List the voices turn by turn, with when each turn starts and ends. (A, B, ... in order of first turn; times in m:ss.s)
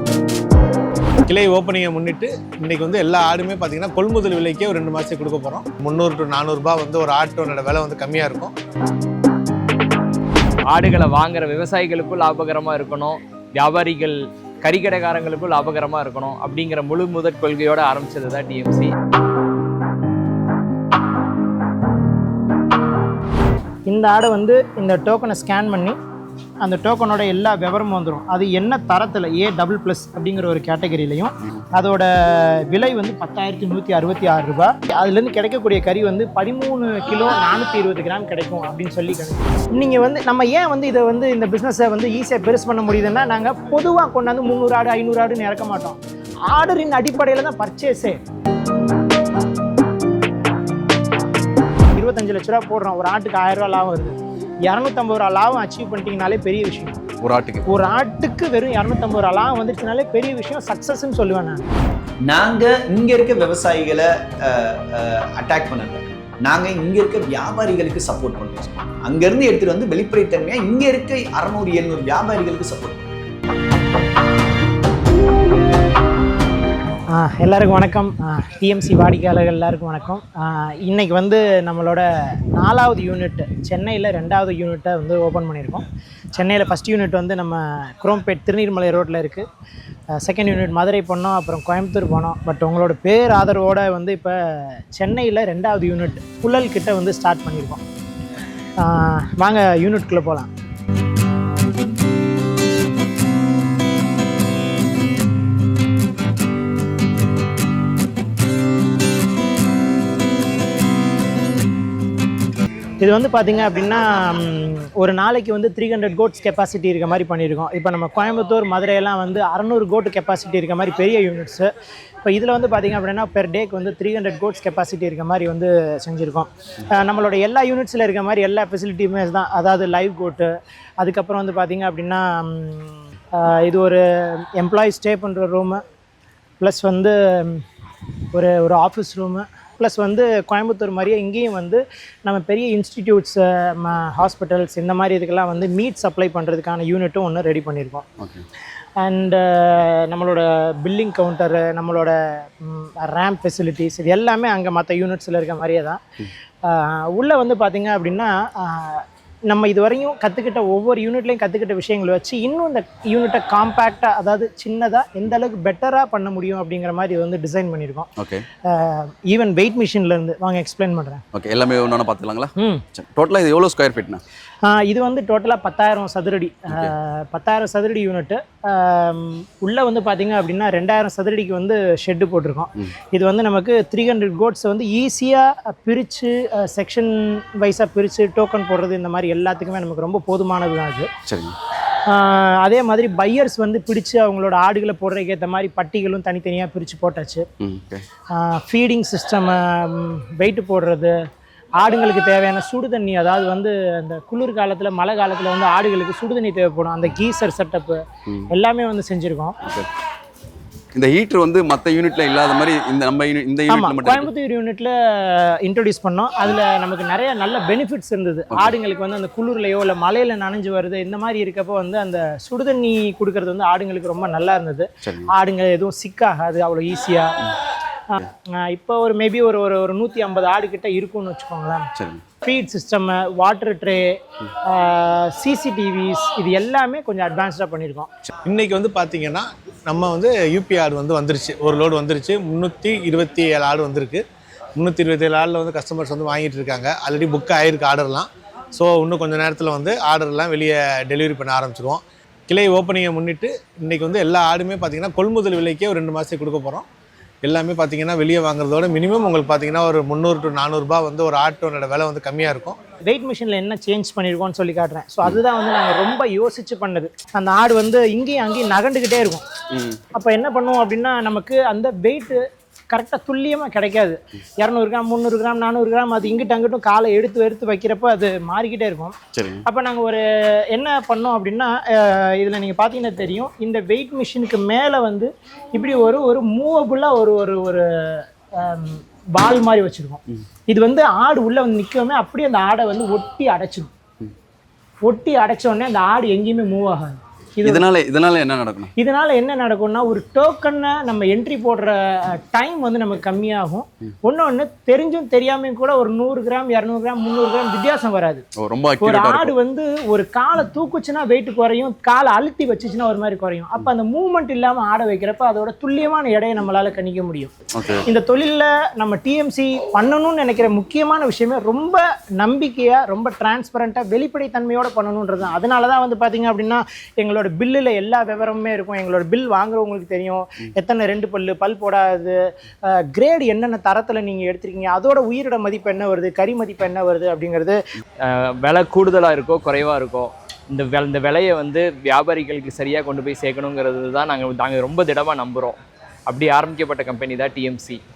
0:01.2-0:08.5 A
0:10.7-0:18.9 B
0:23.9-0:26.0 C
0:26.6-0:48.2 C
0:51.9-0:57.0 C
0:57.2-0:57.6 D
0:57.6-1:01.7 C
1:02.2-1:13.3 E
1:17.1-1:29.5 C
1:30.1-1:37.8 C
1:38.8-1:40.5 C
1:53.0-2:01.7 C
2:02.2-2:15.8 C
2:16.6-2:17.6 C
2:18.3-2:28.0 C
2:28.2-2:28.4 D
2:29.0-2:36.0 C
2:36.6-2:48.1 C
2:48.2-2:48.4 D
2:48.6-2:51.2 C
2:51.3-2:54.2 D
2:52.6-2:52.8 C
2:54.6-3:11.1 C
3:11.2-3:11.6 D
3:12.0-3:17.5 C
3:17.6-3:18.0 D
3:18.3-3:21.2 C
3:21.8-3:29.6 C
3:30.9-3:34.3 D
3:33.7-3:47.5 C
3:45.0-3:45.3 D
3:48.1-3:51.9 C
3:52.0-3:52.2 D
3:52.4-3:58.1 C
3:58.4-4:04.2 A
4:04.8-4:16.8 A
4:17.4-4:22.8 A
4:23.1-4:29.4 C
4:29.7-4:30.0 D
4:30.1-4:53.9 C
4:39.3-4:39.6 D
4:55.0-4:57.8 C
4:57.6-4:58.9 D
4:59.0-5:08.4 C
5:08.6-5:09.5 D
5:09.0-5:17.5 C
5:17.7-5:18.0 D
5:18.0-5:37.8 C
5:38.2-5:48.0 B